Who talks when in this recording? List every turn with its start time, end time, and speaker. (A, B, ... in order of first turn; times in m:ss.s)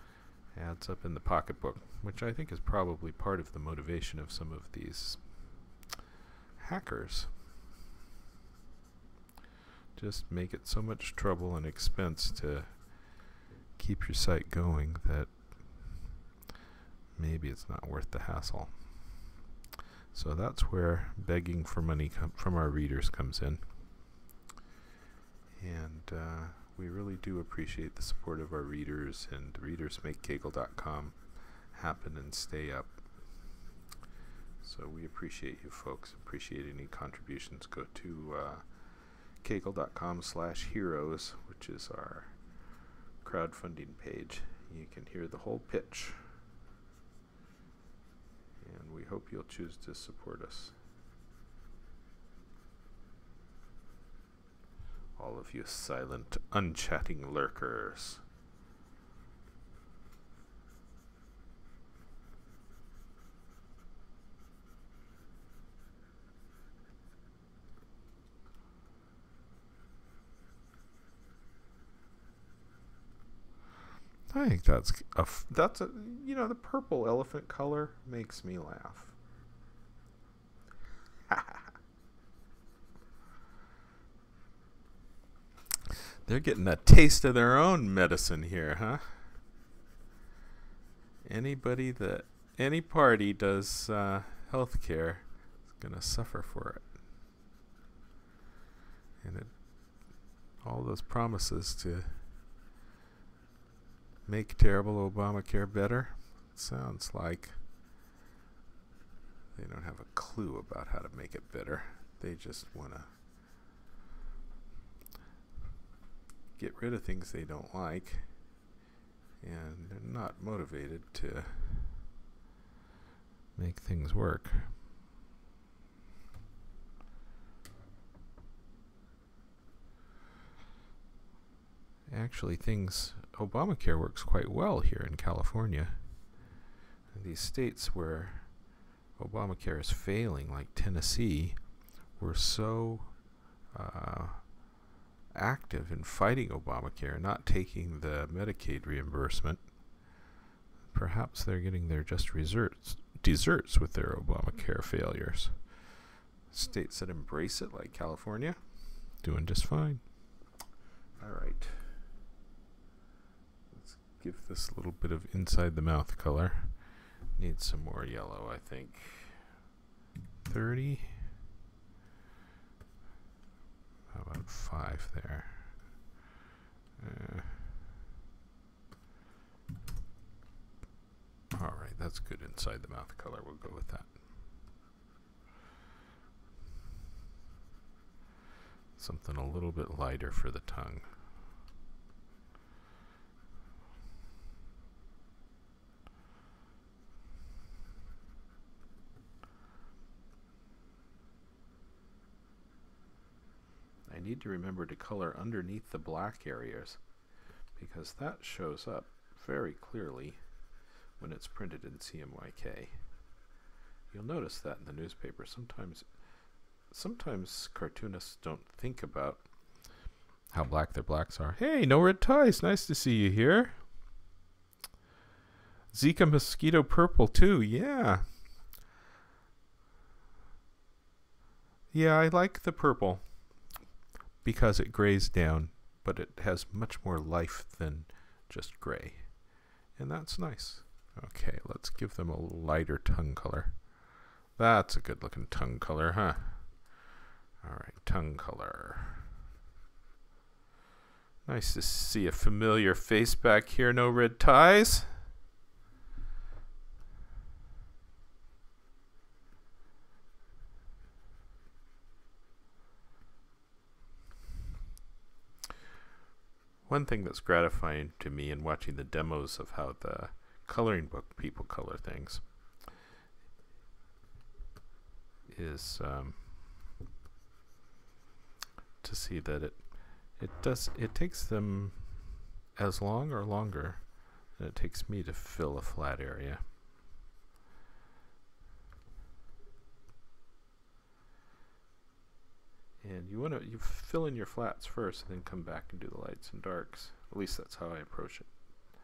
0:00.5-0:05.5 A
0:06.6-0:07.3 A
0:09.9-0:13.2 A
0:13.8-0:16.0 A
0:17.1-0:19.2 A
0:20.1-0:23.6 A
0:25.6-0:33.4 A
0:34.6-0:42.7 A
0:43.2-0:46.4 A
0:48.6-0:50.8 A
0:55.1-0:58.2 A
1:14.3-1:19.2 A
1:21.3-1:21.6 A
1:26.2-1:29.3 A
1:31.2-1:36.9 A
1:39.2-1:40.0 A
1:40.6-1:42.2 A
1:44.2-1:47.6 A
1:49.5-1:53.1 A
1:56.6-1:58.3 A
1:59.4-2:02.1 A
2:03.6-2:04.8 A
2:12.1-2:16.0 A
2:17.1-2:23.2 A
2:23.7-2:24.7 A
2:25.3-2:29.7 A
2:30.9-2:35.7 A
2:36.5-2:40.1 A
2:41.2-2:42.0 A
2:43.7-2:49.5 A
2:50.4-2:51.3 A
2:54.1-2:55.9 A
2:57.0-2:57.7 A
3:01.5-3:04.2 A
3:09.0-3:11.1 A
3:24.0-3:27.0 A
3:27.8-3:30.4 A
3:31.2-3:33.0 A
3:34.1-3:36.0 A
3:36.9-3:39.5 A
3:40.5-3:43.8 A
3:45.9-3:48.3 A
3:51.9-3:53.5 A
3:54.4-4:04.0 A
4:04.5-4:06.9 A
4:07.6-4:09.3 A
4:11.4-4:15.2 A
4:26.8-4:32.4 A
4:35.5-4:36.6 A
4:39.0-4:46.6 A
4:53.0-4:58.5 A